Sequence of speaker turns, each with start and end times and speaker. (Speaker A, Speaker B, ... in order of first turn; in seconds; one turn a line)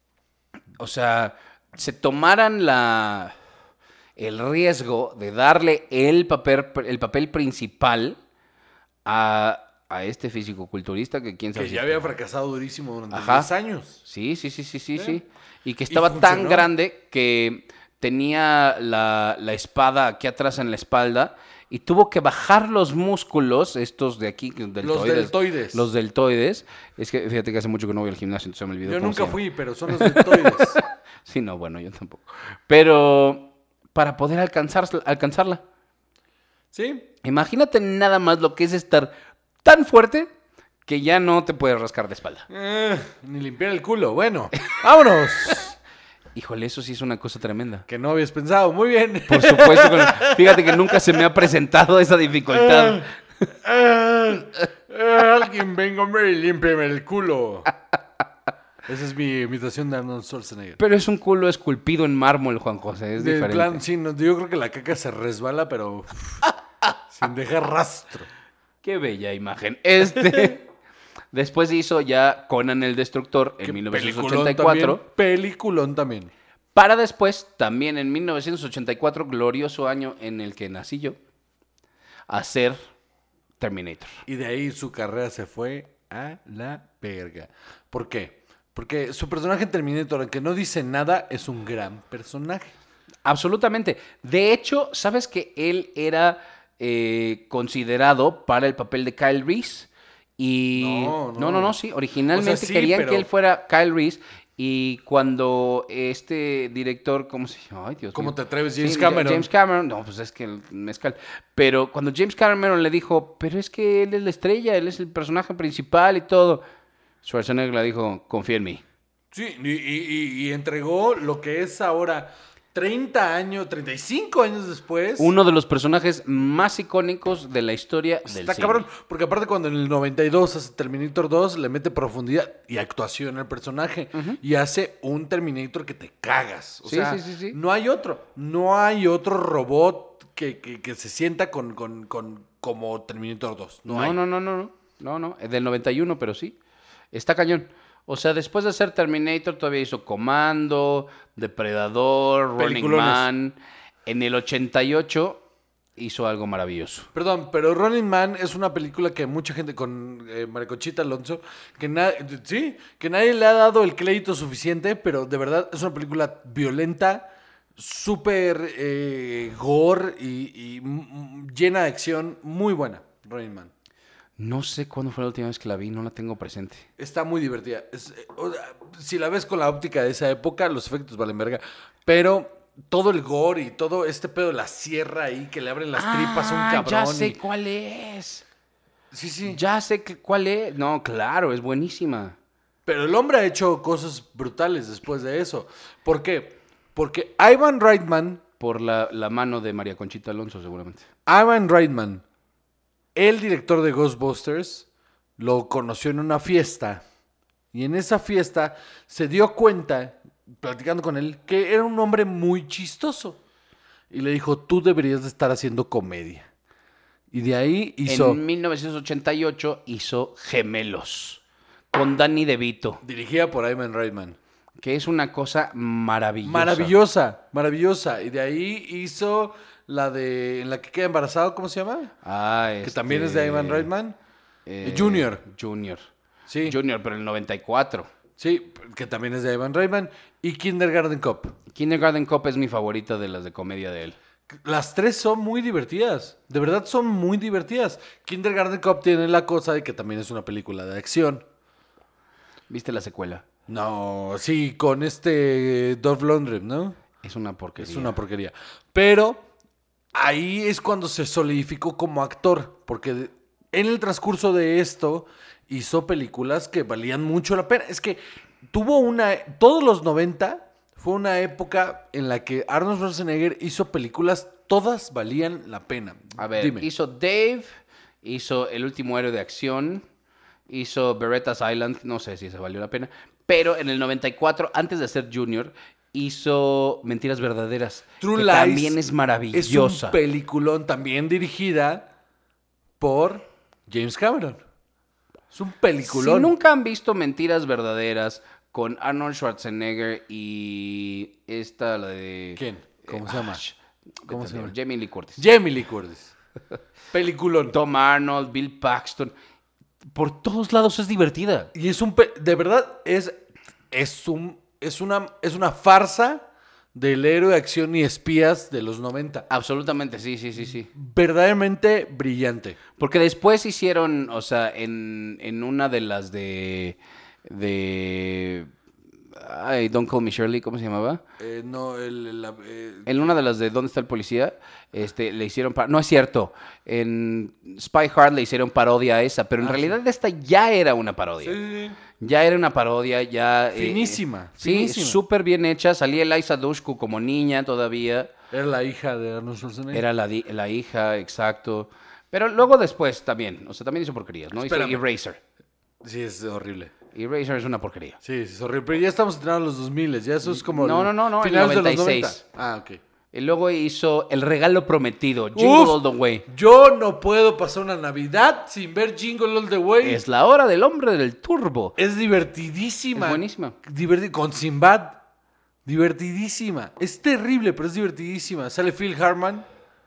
Speaker A: 0.8-3.3
Speaker A: 4.2-8.2
Speaker A: 9.0-12.1
Speaker B: 11.5-14.0
Speaker A: 13.1-13.5
Speaker A: 14.0-29.4
Speaker B: 15.9-16.7
Speaker B: 24.8-25.9
Speaker B: 28.8-30.8
Speaker A: 29.9-35.6
Speaker B: 36.7-37.1
Speaker A: 37.2-40.3
Speaker A: 40.9-42.5
Speaker B: 42.5-45.8
Speaker A: 46.3-47.9
Speaker B: 47.9-51.0
Speaker A: 49.3-53.1
Speaker B: 52.5-57.7
Speaker B: 58.8-60.8
Speaker A: 60.8-63.8
Speaker B: 63.2-66.4
Speaker B: 67.1-68.3
Speaker A: 68.8-70.7
Speaker A: 71.3-75.0
Speaker B: 73.6-76.3
Speaker A: 76.7-81.2
Speaker A: 82.3-82.8
Speaker A: 83.6-84.2
Speaker B: 84.3-92.7
Speaker A: 93.2-116.6
Speaker B: 100.7-101.8
Speaker B: 102.3-103.3
Speaker B: 108.1-109.5
Speaker A: 117.2-118.8
Speaker B: 119.3-125.3
Speaker A: 125.2-128.8
Speaker B: 128.2-144.2
Speaker A: 134.1-134.4
Speaker A: 136.8-137.6
Speaker A: 143.9-146.6
Speaker A: 147.1-155.4
Speaker B: 152.6-153.3
Speaker A: 156.0-157.1
Speaker B: 157.1-173.7
Speaker A: 174.4-176.8
Speaker B: 177.0-187.4
Speaker A: 185.9-188.4
Speaker B: 189.1-189.6
Speaker A: 189.4-192.3
Speaker B: 192.8-198.4
Speaker A: 198.6-201.1
Speaker B: 201.2-202.2
Speaker B: 203.1-207.0
Speaker B: 207.7-213.4
Speaker B: 214.1-216.5
Speaker B: 217.3-218.4
Speaker A: 218.1-221.4
Speaker A: 221.9-223.0
Speaker B: 223.0-224.4
Speaker A: 224.8-226.9
Speaker B: 226.4-232.1
Speaker A: 232.2-233.9
Speaker B: 232.8-234.2
Speaker A: 234.7-236.1
Speaker B: 234.8-235.4
Speaker B: 236.5-236.8
Speaker A: 236.6-238.1
Speaker B: 238.4-241.6
Speaker A: 241.7-244.2
Speaker B: 244.5-251.4
Speaker A: 252.7-253.4
Speaker B: 253.7-256.9
Speaker A: 257.2-258.2
Speaker B: 257.8-259.4
Speaker B: 260.1-276.9
Speaker A: 276.4-277.7
Speaker A: 278.2-280.0
Speaker A: 280.7-290.2
Speaker B: 288.2-289.0
Speaker B: 289.5-292.1
Speaker B: 293.0-294.6
Speaker B: 295.5-296.5
Speaker A: 296.1-305.4
Speaker B: 302.6-303.6
Speaker B: 304.3-304.7
Speaker B: 305.4-306.3
Speaker B: 307.1-307.8
Speaker A: 307.7-309.3
Speaker A: 310.1-311.7
Speaker B: 311.7-313.4
Speaker B: 313.9-319.4
Speaker A: 319.5-320.9
Speaker B: 320.7-322.8
Speaker A: 323.0-328.7
Speaker A: 329.4-331.2
Speaker B: 331.4-333.3
Speaker A: 333.1-341.6
Speaker B: 339.6-340.0
Speaker B: 341.4-342.0
Speaker A: 342.2-348.3
Speaker B: 343.7-345.2
Speaker B: 348.5-350.0
Speaker A: 349.9-355.4
Speaker B: 354.6-355.0
Speaker B: 356.0-356.9
Speaker A: 357.1-358.2
Speaker B: 358.2-363.0
Speaker A: 360.4-362.4
Speaker A: 363.3-366.4
Speaker B: 365.5-370.2
Speaker A: 370.0-371.9
Speaker B: 372.0-375.2
Speaker A: 373.1-373.7
Speaker B: 375.9-379.6